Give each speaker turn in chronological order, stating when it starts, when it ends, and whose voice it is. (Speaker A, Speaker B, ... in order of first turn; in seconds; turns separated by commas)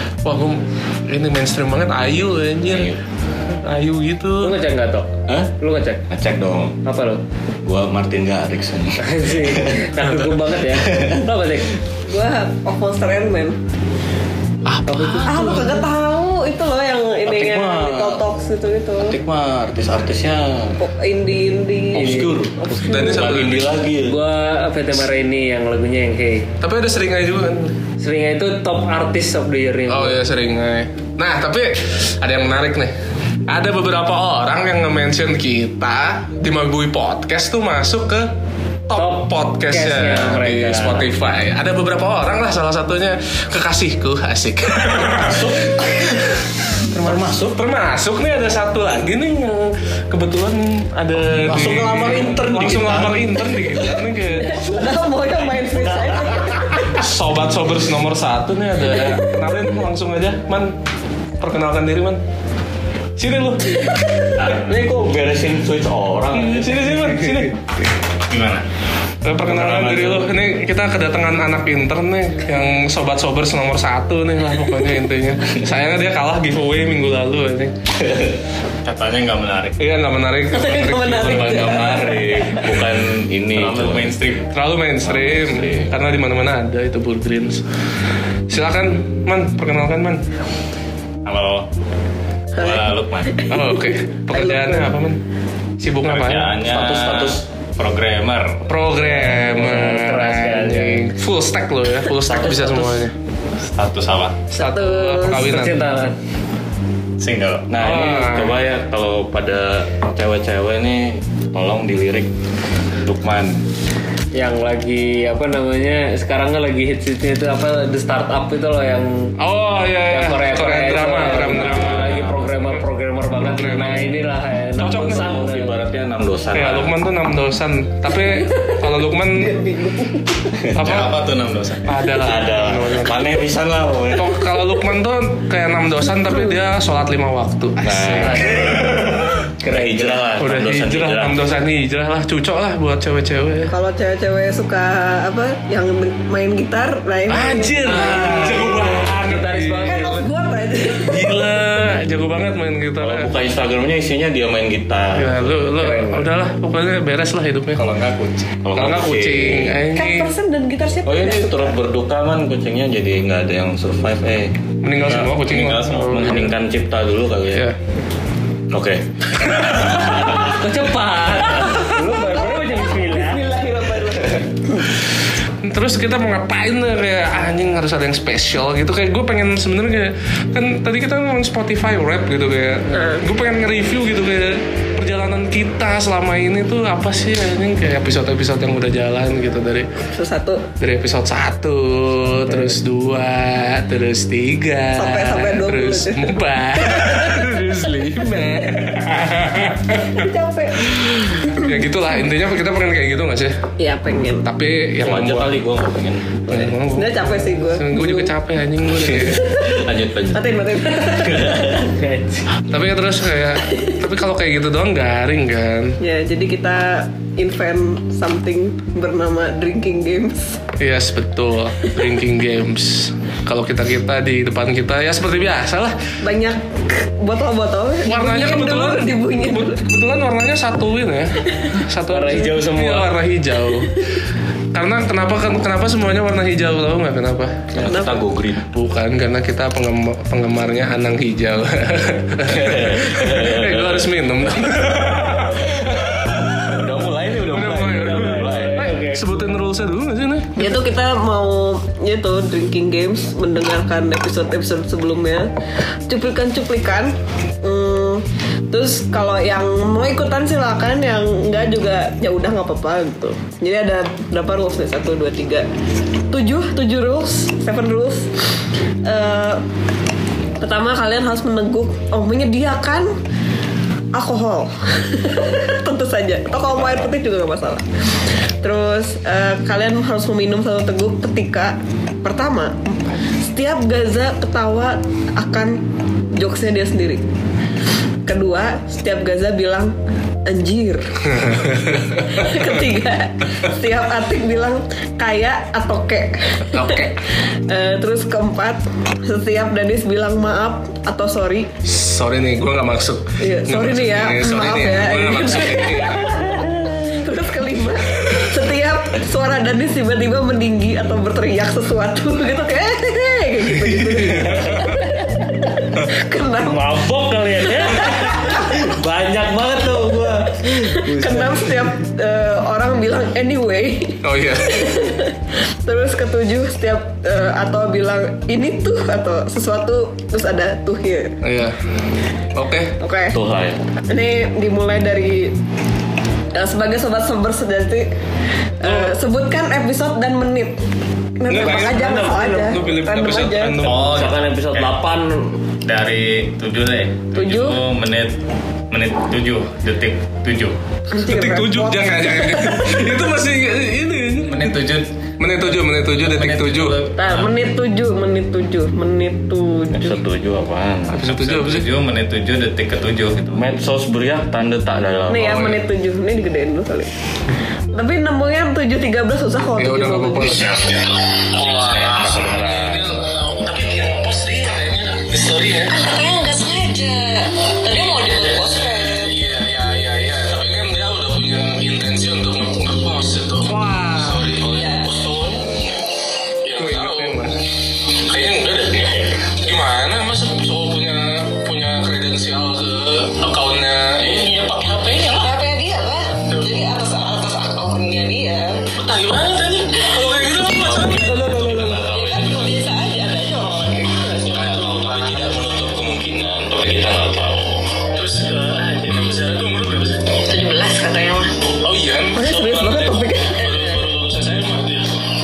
Speaker A: 0.2-2.9, Speaker B: 2.7-3.0, Speaker A: 3.6-4.6, Speaker C: 4.4-6.0, Speaker B: 5.3-5.5, Speaker B: 6.1-6.8, Speaker C: 6.8-7.2, Speaker B: 7.6-11.3, Speaker C: 9.0-11.7, Speaker D: 12.1-13.6, Speaker A: 14.6-15.8, Speaker C: 14.9-15.5, Speaker D: 15.2-19.2, Speaker B: 17.2-18.2, Speaker B: 19.0-20.7, Speaker D: 20.8-23.3, Speaker B: 21.9-24.2, Speaker C: 22.0-22.3, Speaker A: 22.8-23.8, Speaker C: 24.0-26.5, Speaker A: 26.6-27.7, Speaker C: 28.0-30.2, Speaker A: 29.9-32.9, Speaker A: 33.5-38.3, Speaker A: 38.9-45.5, Speaker C: 39.0-41.1, Speaker B: 44.8-46.3, Speaker B: 46.9-47.6, Speaker A: 46.9-54.8, Speaker B: 51.4-53.3, Speaker D: 54.4-56.9, Speaker A: 56.8-60.7, Speaker D: 58.9-59.3, Speaker A: 61.4-62.2, Speaker A: 63.2-64.0, Speaker B: 64.3-67.5, Speaker A: 66.3-67.6, Speaker E: 68.3-68.6, Speaker A: 69.2-77.8, Speaker B: 69.5-70.3, Speaker B: 78.0-78.3, Speaker E: 78.8-79.8, Speaker A: 79.8-81.8, Speaker D: 80.5-82.7, Speaker B: 81.0-84.2, Speaker E: 83.5-84.5, Speaker A: 84.5-87.6, Speaker B: 85.1-85.9, Speaker A: 88.5-90.2, Speaker E: 91.2-91.7, Speaker E: 92.5-93.5, Speaker A: 93.5-95.2, Speaker D: 94.4-94.8, Speaker A: 95.8-96.5, Speaker E: 96.0-98.6, Speaker B: 96.6-97.4, Speaker A: 98.7-103.1, Speaker C: 99.1-101.0, Speaker B: 102.3-102.8, Speaker E: 103.7-104.4, Speaker A: 104.5-105.8, Speaker D: 104.6-105.5, Speaker C: 105.3-106.2, Speaker E: 107.2-107.7, Speaker B: 107.7-112.3, Speaker A: 107.8-108.6, Speaker B: 113.0-113.6, Speaker C: 114.3-119.3, Speaker A: 119.4-122.8, Speaker C: 120.1-125.8, Speaker A: 123.4-124.1, Speaker A: 124.8-125.4, Speaker B: 125.1-127.0, Speaker A: 126.5-129.5, Speaker D: 129.4-130.5, Speaker B: 130.6-131.1, Speaker A: 130.8-131.2, Speaker E: 130.8-131.9, Speaker A: 131.9-133.3, Speaker B: 132.2-134.4, Speaker A: 134.1-138.9, Speaker B: 137.8-141.4, Speaker C: 138.2-138.9, Speaker C: 139.6-140.2, Speaker A: 140.4-143.7, Speaker D: 143.7-148.0, Speaker A: 147.3-150.0, Speaker C: 147.9-150.3, Speaker D: 149.8-151.4, Speaker A: 150.9-153.3, Speaker B: 153.0-155.7, Speaker A: 155.1-157.8, Speaker C: 155.8-156.3, Speaker E: 157.7-158.6, Speaker B: 158.6-159.8, Speaker A: 158.7-160.3, Speaker D: 159.9-161.8, Speaker B: 161.0-167.7, Speaker A: 164.8-166.5, Speaker E: 165.5-166.4, Speaker B: 168.7-170.5, Speaker C: 170.4-173.4, Speaker D: 172.0-174.9, Speaker A: 175.6-189.9, Speaker D: 182.9-183.2, Speaker D: 190.1-190.6, Speaker A: 190.8-200.2, Speaker D: 194.9-197.5, Speaker D: 199.9-201.7, Speaker A: 200.9-203.6, Speaker D: 203.8-204.4, Speaker A: 204.4-205.6, Speaker B: 205.0-206.8, Speaker A: 206.5-209.6, Speaker D: 206.9-208.3, Speaker B: 209.5-211.8, Speaker D: 210.3-211.8, Speaker C: 211.9-212.4, Speaker A: 212.7-215.9, Speaker D: 216.0-220.6, Speaker A: 220.8-225.9, Speaker D: 226.2-229.8, Speaker A: 228.1-234.1, Speaker C: 232.1-233.1, Speaker A: 234.7-237.8, Speaker B: 237.7-238.7, Speaker D: 237.8-238.2, Speaker A: 238.7-245.7, Speaker B: 242.5-244.1, Speaker B: 246.5-249.0, Speaker A: 247.5-250.7, Speaker C: 248.0-249.2, Speaker D: 250.6-255.5, Speaker D: 256.1-265.7, Speaker D: 266.3-268.3, Speaker D: 269.1-269.6, Speaker D: 270.6-273.1, Speaker D: 274.1-277.8, Speaker D: 278.6-285.8, Speaker D: 286.3-287.2, Speaker D: 288.2-297.1, Speaker A: 291.5-292.0, Speaker A: 296.7-297.1, Speaker D: 297.7-301.7, Speaker A: 301.8-306.5, Speaker D: 303.4-316.8, Speaker A: 314.1-314.8, Speaker C: 316.6-321.9, Speaker D: 317.9-318.7, Speaker D: 320.6-331.3, Speaker A: 324.2-325.0, Speaker A: 331.4-331.8, Speaker A: 332.6-332.9, Speaker D: 333.0-333.4, Speaker B: 333.3-333.8, Speaker D: 334.1-335.6, Speaker D: 336.6-338.1, Speaker D: 338.8-340.8, Speaker A: 338.8-339.1, Speaker D: 341.4-343.8, Speaker A: 341.5-344.1, Speaker E: 343.8-344.9, Speaker C: 344.1-345.6, Speaker E: 345.8-348.4, Speaker D: 347.3-347.8, Speaker E: 348.9-350.8, Speaker D: 351.1-353.1, Speaker A: 351.1-354.8, Speaker E: 354.4-355.1, Speaker A: 355.4-357.0, Speaker E: 356.2-357.5, Speaker D: 357.2-360.2, Speaker B: 359.9-361.2, Speaker A: 361.1-361.9, Speaker E: 361.2-363.7, Speaker B: 363.5-365.8, Speaker D: 365.3-367.1, Speaker D: 367.9-370.6, Speaker A: 369.8-370.7, Speaker F: 370.7-371.0, Speaker F: 371.6-375.9, Speaker B: 372.1-373.1, Speaker G: 375.9-379.3, Speaker F: 378.1-385.8, Speaker A: 383.6-384.6, Speaker G: 384.6-385.1, Speaker F: 386.6-387.5, Speaker A: 386.7-387.6, Speaker F: 388.3-394.5, Speaker G: 394.2-398.9, Speaker F: 399.0-402.7, Speaker A: 399.9-402.1, Speaker G: 400.3-401.2, Speaker G: 402.0-405.5, Speaker F: 404.5-410.3, Speaker G: 410.4-411.5, Speaker F: 411.8-415.1, Speaker D: 412.3-413.6, Speaker G: 413.7-414.0